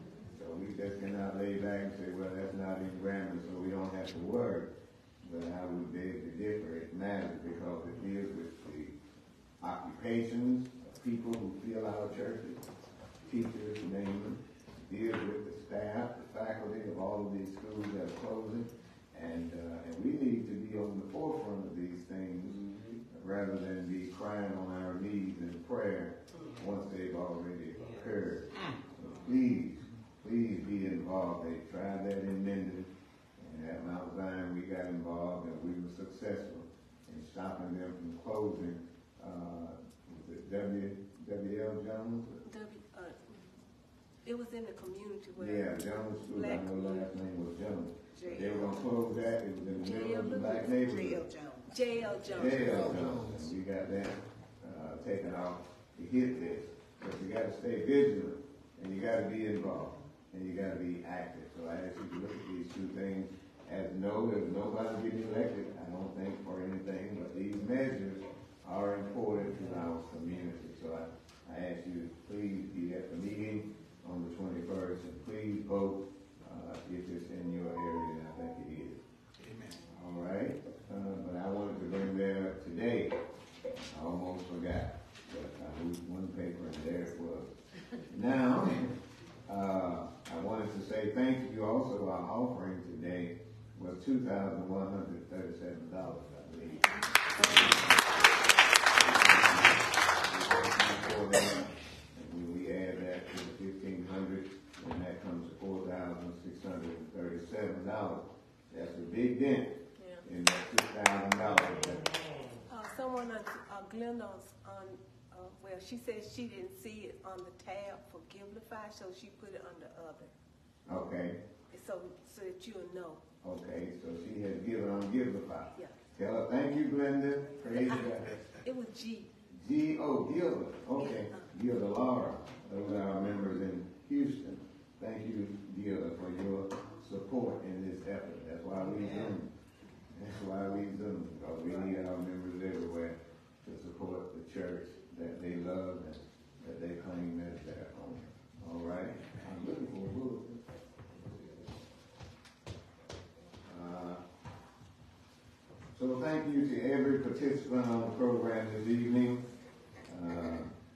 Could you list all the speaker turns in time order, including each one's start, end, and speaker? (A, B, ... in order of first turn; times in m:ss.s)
0:00.3-0:09.0 A
0:09.6-0:12.6 A
0:13.3-0:42.4 A
0:42.4-0:43.4 B
0:44.2-0:47.1 B
0:45.4-0:51.2 A
0:48.2-0:48.8 B
0:49.8-0:53.4 B
0:52.3-1:19.0 A
1:19.9-1:23.2 A
1:23.7-1:27.6 A
1:28.1-1:29.0 A
1:29.5-1:38.1 A
1:38.9-1:52.1 A
1:50.0-1:50.2 B
1:52.7-2:00.3 B
2:00.9-2:01.4 A
2:01.7-2:03.2 B
2:03.4-2:08.3 A
2:07.7-2:09.3 B
2:09.5-2:19.5 A
2:11.0-2:11.5 B
2:20.1-2:30.6 A
2:31.2-2:31.7 A
2:33.7-2:34.2 A
2:35.9-2:39.4 A
2:40.1-2:40.7 A